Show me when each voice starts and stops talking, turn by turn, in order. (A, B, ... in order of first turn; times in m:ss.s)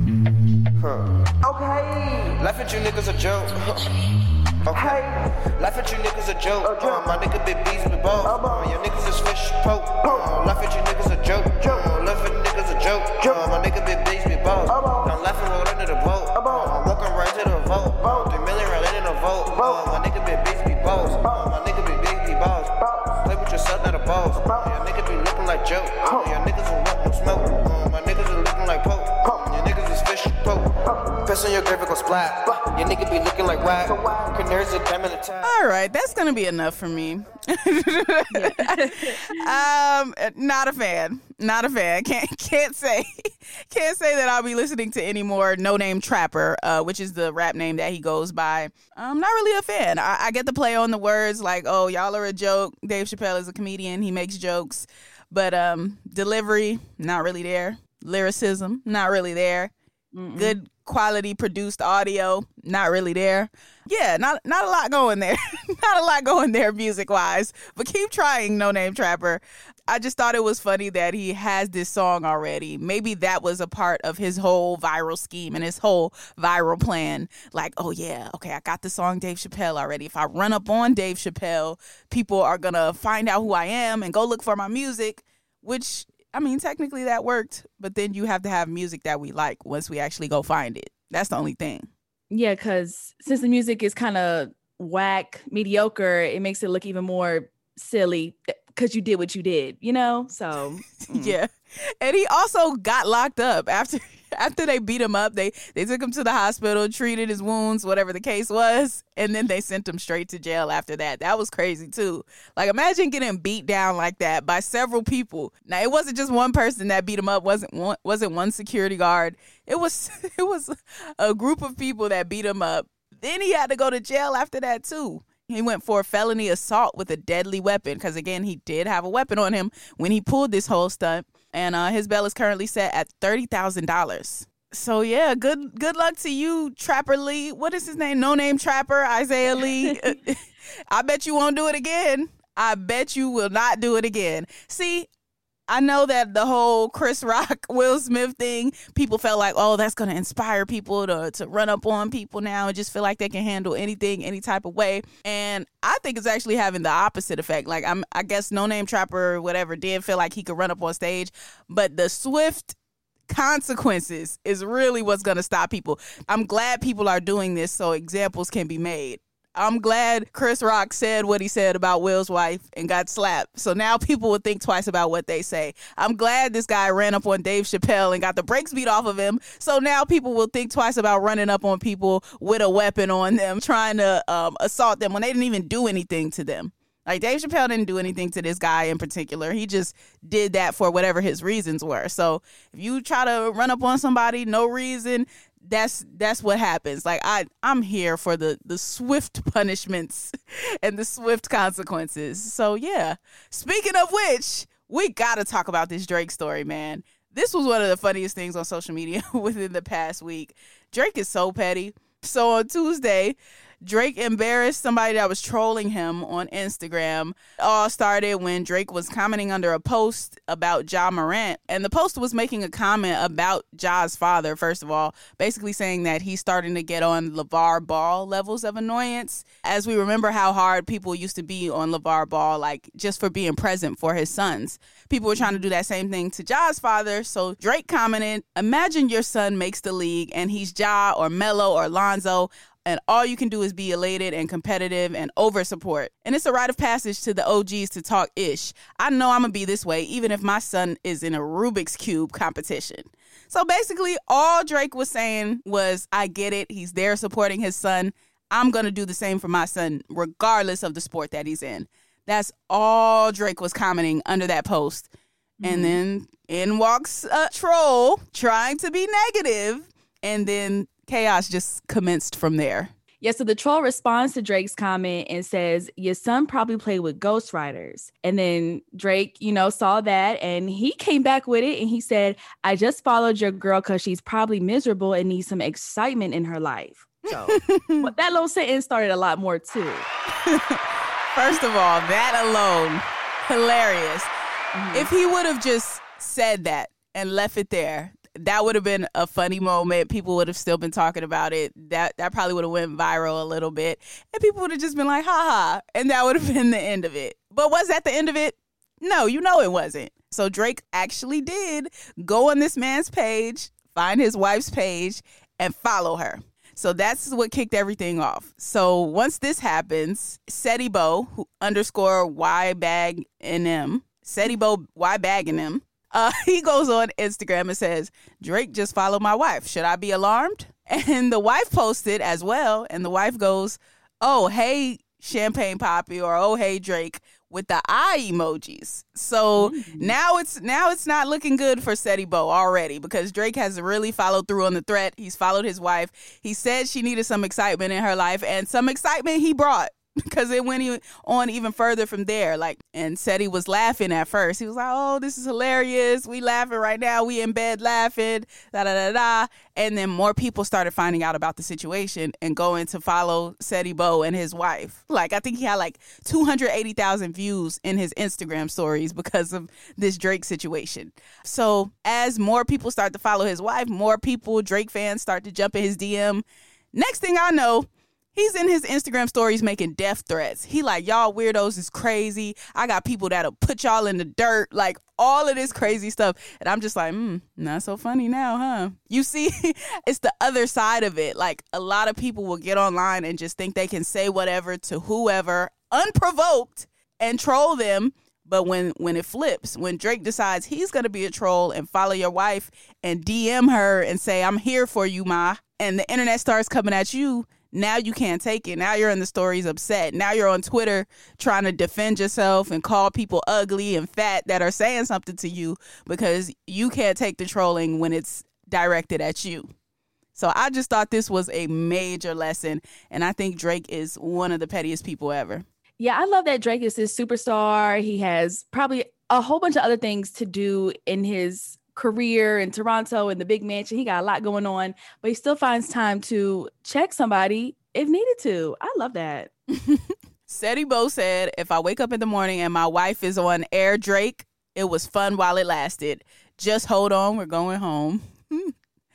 0:00.8-0:01.1 A
0:02.3-0:03.9 A
0:04.6-0:35.5 A
0:35.4-0:59.7 B
0:38.3-0:39.3 C
1:00.1-1:00.6 C
1:00.4-1:31.9 B
1:32.3-1:41.4 C
1:41.1-1:41.5 B
1:42.0-2:25.1 B
2:25.7-2:42.8 B
2:43.3-4:25.1 B
4:25.6-4:26.0 C
4:25.6-4:32.9 B
4:33.2-4:50.1 C
4:47.5-4:48.1 B
4:50.4-4:50.8 B
4:51.3-4:54.3 B
4:54.7-4:55.1 C
4:54.9-6:59.7 B
5:39.6-5:40.2 C
6:25.7-6:26.0 C
7:00.4-7:05.6 B
7:06.0-7:19.5 C
7:19.8-7:28.7 B